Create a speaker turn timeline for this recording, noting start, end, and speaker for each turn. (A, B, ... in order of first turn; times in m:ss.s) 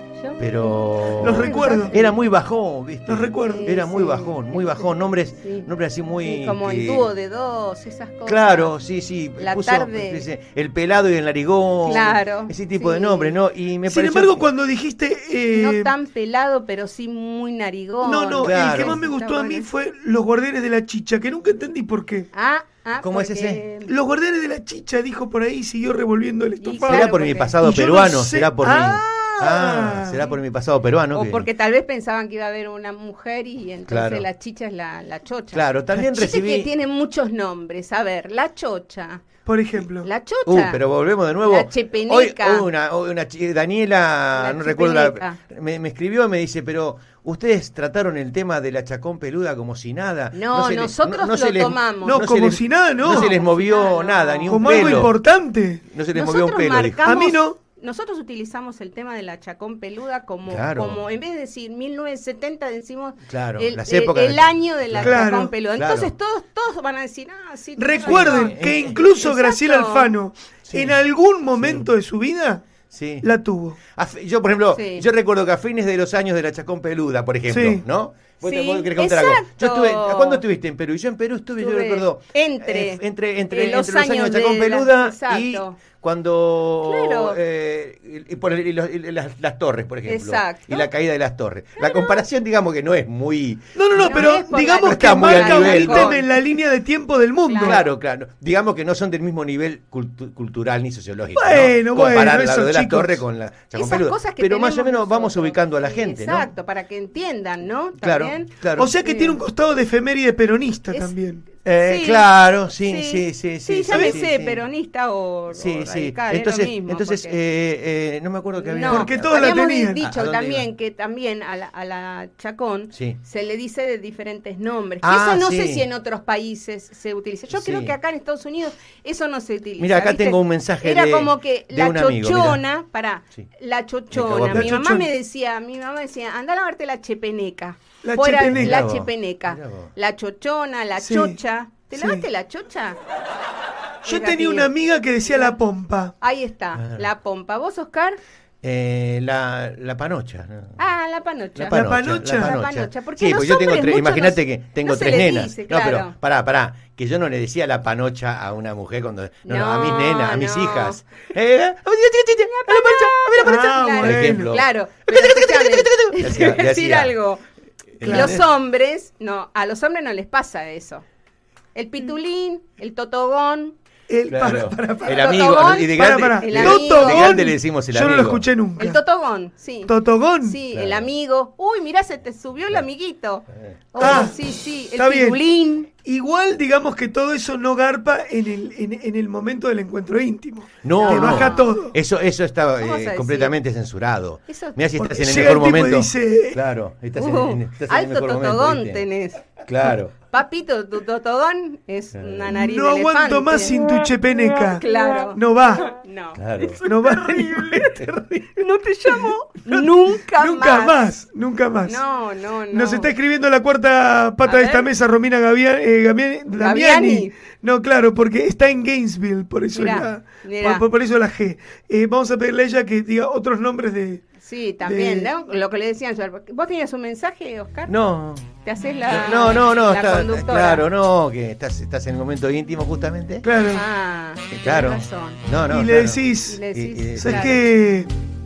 0:00.2-0:02.2 A
0:00.4-0:07.1 B
0:01.2-0:02.0 C
0:03.1-0:03.7 C
0:03.4-0:05.7 A
0:06.2-0:08.7 A
0:08.3-0:14.5 B
0:09.4-0:10.2 A
0:11.8-0:13.4 A
0:13.9-0:15.9 C
0:15.5-0:19.7 A
0:18.0-0:22.3 C
0:18.4-0:19.0 B
0:22.3-0:23.9 A
0:23.0-0:23.6 B
0:23.9-0:30.3 C
0:26.6-0:27.6 A
0:26.9-0:31.5 B
0:31.1-0:39.3 A
0:33.9-0:34.3 B
0:35.5-0:36.7 B
0:39.5-0:40.1 C
0:40.0-0:40.8 A
0:40.5-0:55.2 B
0:41.4-0:42.7 A
0:44.4-0:45.4 A
0:50.3-0:52.4 A
0:52.0-0:53.3 C
0:53.0-0:55.1 A
0:54.5-0:55.8 C
0:55.9-0:57.1 B
0:56.1-1:10.1 A
0:57.0-0:57.6 C
1:00.5-1:01.0 B
1:03.2-1:05.2 B
1:05.0-1:05.5 C
1:05.8-1:06.1 B
1:07.8-1:12.7 C
1:08.1-1:09.0 B
1:10.6-1:11.0 B
1:11.5-1:11.9 B
1:12.9-1:13.3 B
1:13.2-1:13.8 C
1:13.9-1:36.2 B
1:14.7-1:15.1 A
1:17.5-1:17.8 C
1:18.4-1:20.4 A
1:21.6-1:25.8 A
1:26.8-1:27.4 A
1:30.1-1:30.9 A
1:31.8-1:32.2 A
1:33.8-1:37.8 C
1:34.0-1:36.3 A
1:37.4-1:37.8 A
1:37.6-1:46.5 B
1:41.4-1:43.2 C
1:43.7-1:49.4 A
1:48.0-1:48.9 B
1:48.8-1:51.4 C
1:51.6-1:54.6 B
1:51.8-1:52.3 A
1:52.8-1:57.4 A
1:53.9-1:54.2 C
1:55.5-2:00.7 B
1:58.6-2:23.0 A
1:58.9-2:00.0 C
2:02.9-2:03.2 B
2:05.0-2:05.9 B
2:07.5-2:08.0 B
2:09.8-2:12.6 B
2:14.1-2:14.8 B
2:14.5-2:15.1 C
2:18.0-2:18.8 C
2:18.4-2:19.9 B
2:21.0-2:21.4 C
2:21.9-2:22.3 C
2:24.0-2:26.1 C
2:24.0-2:24.7 A
2:25.2-2:25.6 A
2:26.2-2:28.2 A
2:26.8-2:27.0 B
2:28.6-2:30.8 B
2:30.8-2:36.1 A
2:31.6-2:47.1 B
2:31.7-2:32.6 C
2:39.5-2:41.0 A
2:42.4-2:47.4 A
2:43.4-2:44.5 C
2:48.0-2:48.5 B
2:48.0-2:48.4 C
2:48.0-2:51.0 A
2:51.7-2:53.8 A
2:54.1-2:55.3 C
2:54.3-2:58.5 B
2:55.0-2:57.5 A
2:55.9-2:59.0 C
2:58.8-3:05.9 A
2:59.9-3:00.6 C
3:00.7-3:01.1 B
3:04.0-3:04.4 C
3:05.0-3:05.4 C
3:06.0-3:12.0 C
3:10.8-3:19.0 B
3:11.0-3:11.7 A
3:12.8-3:13.6 A
3:14.5-3:14.8 A
3:15.0-3:16.6 C
3:17.2-3:24.0 A
3:19.6-3:20.2 B
3:22.2-3:22.5 B
3:22.5-3:26.0 C
3:24.6-3:31.1 A
3:26.4-3:26.8 B
3:26.8-3:28.0 C
3:27.8-3:28.4 B
3:29.1-3:32.0 C
3:31.8-3:33.1 A
3:32.7-3:44.2 C
3:34.4-3:34.9 A
3:36.6-3:37.3 A
3:39.7-3:40.9 A
3:44.4-3:48.0 A
3:44.8-3:45.3 C
3:47.9-3:48.5 B
3:48.6-3:50.9 A
3:49.1-3:53.5 B
3:53.4-3:53.8 C
3:53.7-3:55.4 A
3:54.5-3:57.6 B
3:55.7-3:56.6 C
3:56.5-3:57.7 A
3:57.1-3:58.1 C